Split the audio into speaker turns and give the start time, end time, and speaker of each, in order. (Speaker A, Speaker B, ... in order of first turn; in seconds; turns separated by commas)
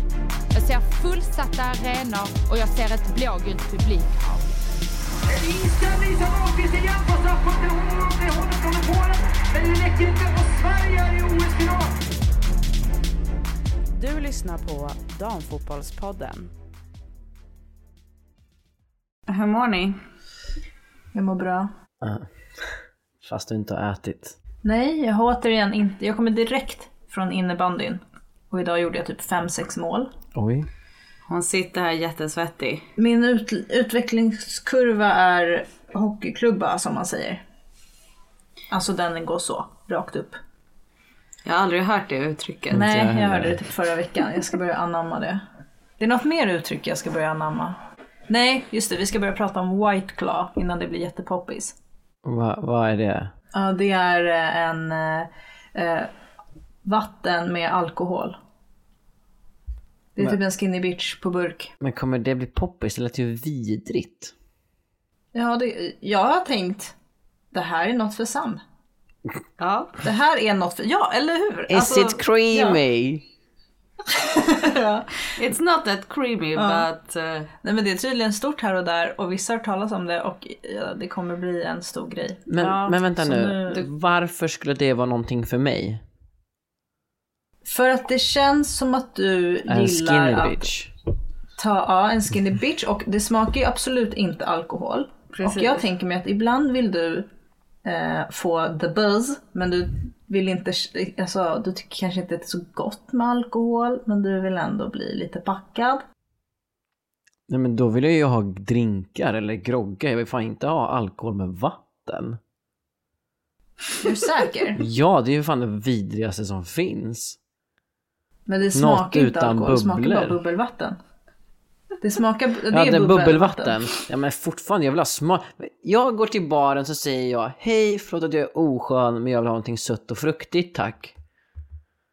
Speaker A: 0.5-4.4, Speaker B: 5.3-12.0, Speaker C: 13.9-16.5, Speaker C: 19.3-20.0, Speaker D: 21.1-21.7, Speaker E: 22.0-24.4, Speaker D: 24.6-30.1, Speaker E: 30.3-30.7, Speaker C: 31.3-32.9, Speaker D: 33.0-37.4, Speaker D: 38.7-40.4, Speaker C: 41.4-42.8, Speaker D: 42.7-45.4, Speaker E: 42.7-43.6, Speaker D: 46.0-51.7, Speaker E: 52.2-53.3, Speaker D: 53.5-56.1, Speaker D: 56.8-58.4, Speaker D: 60.1-61.7, Speaker E: 61.8-64.3, Speaker D: 65.3-66.9, Speaker D: 67.5-68.6, Speaker C: 69.6-70.0, Speaker D: 70.0-72.8, Speaker E: 71.7-73.3, Speaker D: 74.1-75.2, Speaker C: 75.3-77.5, Speaker D: 76.5-76.8, Speaker D: 77.6-83.8, Speaker E: 82.5-86.0, Speaker D: 87.6-90.7, Speaker E: 89.7-90.9, Speaker D: 91.5-97.3, Speaker C: 95.3-95.8, Speaker D: 97.8-106.0, Speaker E: 107.5-112.4, Speaker D: 114.0-114.8, Speaker E: 114.8-117.4, Speaker D: 118.5-121.0, Speaker E: 118.7-120.4, Speaker D: 122.0-123.9, Speaker E: 122.7-131.1